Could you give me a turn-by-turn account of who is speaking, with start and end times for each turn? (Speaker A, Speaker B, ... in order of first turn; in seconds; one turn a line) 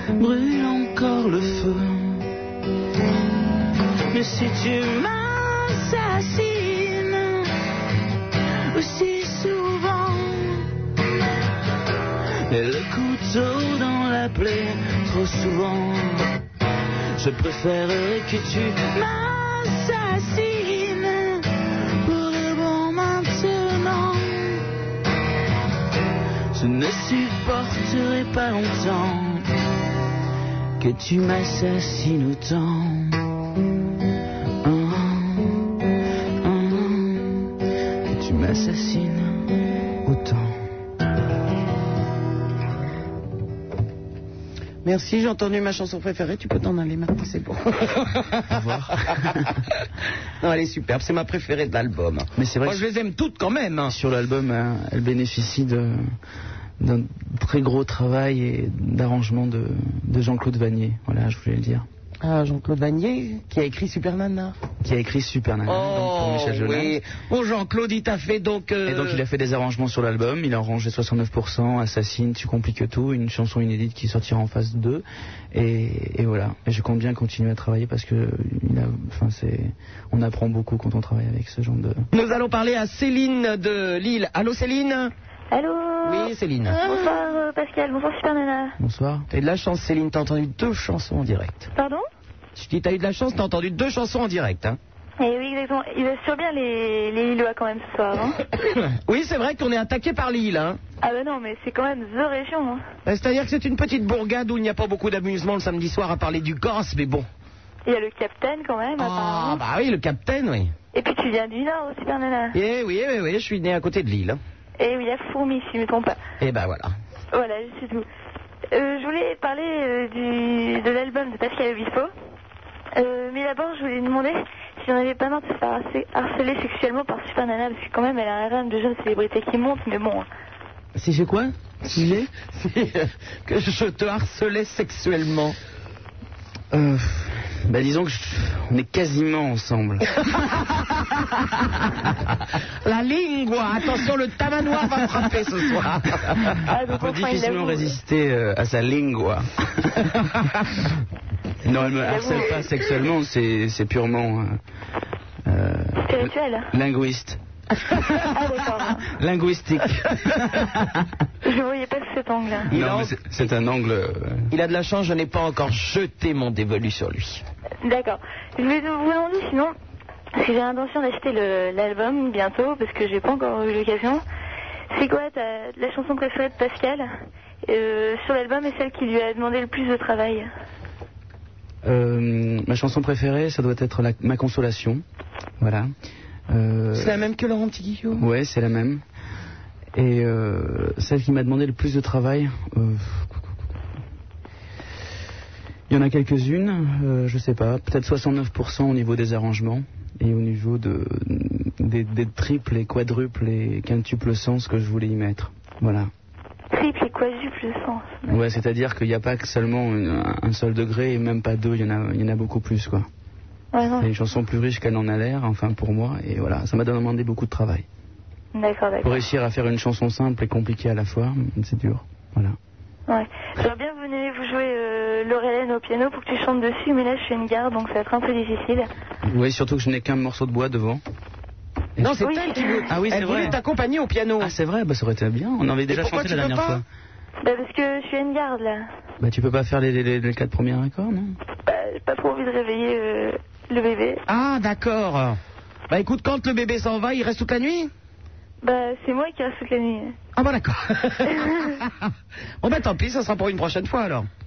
Speaker A: 0.1-2.3
Speaker A: 4.1-7.5
Speaker A: 8.7-10.7
Speaker A: 12.4-16.3
Speaker A: 17.1-24.7
Speaker A: 26.5-29.5
Speaker A: 30.8-33.2
Speaker A: 34.6-35.7
Speaker A: 36.4-37.5
Speaker A: 38.1-39.5
Speaker A: 40.0-40.6
Speaker B: 44.8-49.1
Speaker C: 48.5-49.5
Speaker B: 50.4-53.9
Speaker C: 52.4-52.8
Speaker C: 53.9-56.0
Speaker C: 56.8-61.9
Speaker B: 62.2-64.6
Speaker C: 64.8-66.9
Speaker B: 65.7-69.2
Speaker C: 68.8-82.0
Speaker B: 82.1-85.1
Speaker D: 85.5-86.3
Speaker B: 86.0-86.8
Speaker D: 86.8-88.8
Speaker C: 88.8-89.2
Speaker B: 89.3-91.7
Speaker D: 91.8-92.1
Speaker B: 92.6-94.8
Speaker D: 95.2-98.4
Speaker B: 98.6-100.8
Speaker D: 101.0-102.8
Speaker B: 103.0-107.3
Speaker D: 107.8-109.6
Speaker B: 109.0-110.7
Speaker D: 110.9-112.6
Speaker B: 112.5-114.4
Speaker D: 114.8-116.2
Speaker B: 116.4-116.9
Speaker D: 117.3-118.1
Speaker D: 118.7-122.1
Speaker D: 122.9-130.3
Speaker C: 131.0-132.3
Speaker B: 131.9-135.6
Speaker C: 136.7-140.7
Speaker B: 142.8-146.6
Speaker C: 146.5-150.2
Speaker D: 146.7-147.9
Speaker C: 151.6-154.6
Speaker D: 151.8-152.8
Speaker C: 155.5-157.4
Speaker D: 156.1-156.7
Speaker C: 158.0-161.1
Speaker D: 158.2-159.0
Speaker D: 161.4-162.7
Speaker B: 162.7-163.2
Speaker C: 162.7-164.5
Speaker B: 164.5-167.4
Speaker D: 167.8-169.7
Speaker D: 170.3-174.2
Speaker D: 174.9-177.1
Speaker D: 177.7-180.5
Speaker C: 181.8-185.0
Speaker C: 185.6-185.9
Speaker C: 186.5-187.2
Speaker B: 186.9-188.3
Speaker C: 188.2-189.0
Speaker C: 189.9-193.6
Speaker C: 195.9-206.1
Speaker D: 206.7-208.4
Speaker C: 208.3-213.1
Speaker D: 213.7-214.1
Speaker C: 214.0-217.8
Speaker D: 218.5-219.2
Speaker C: 219.0-222.6
Speaker D: 223.1-228.9
Speaker C: 229.2-231.0
Speaker B: 232.0-234.5
Speaker D: 232.2-232.9
Speaker C: 232.9-233.6
Speaker C: 234.4-236.8
Speaker B: 235.9-236.8
Speaker D: 237.4-238.9
Speaker C: 239.2-241.3
Speaker D: 241.6-244.2
Speaker B: 244.3-245.4
Speaker B: 245.9-247.9
Speaker D: 248.6-250.2
Speaker B: 250.3-254.3
Speaker D: 251.3-251.8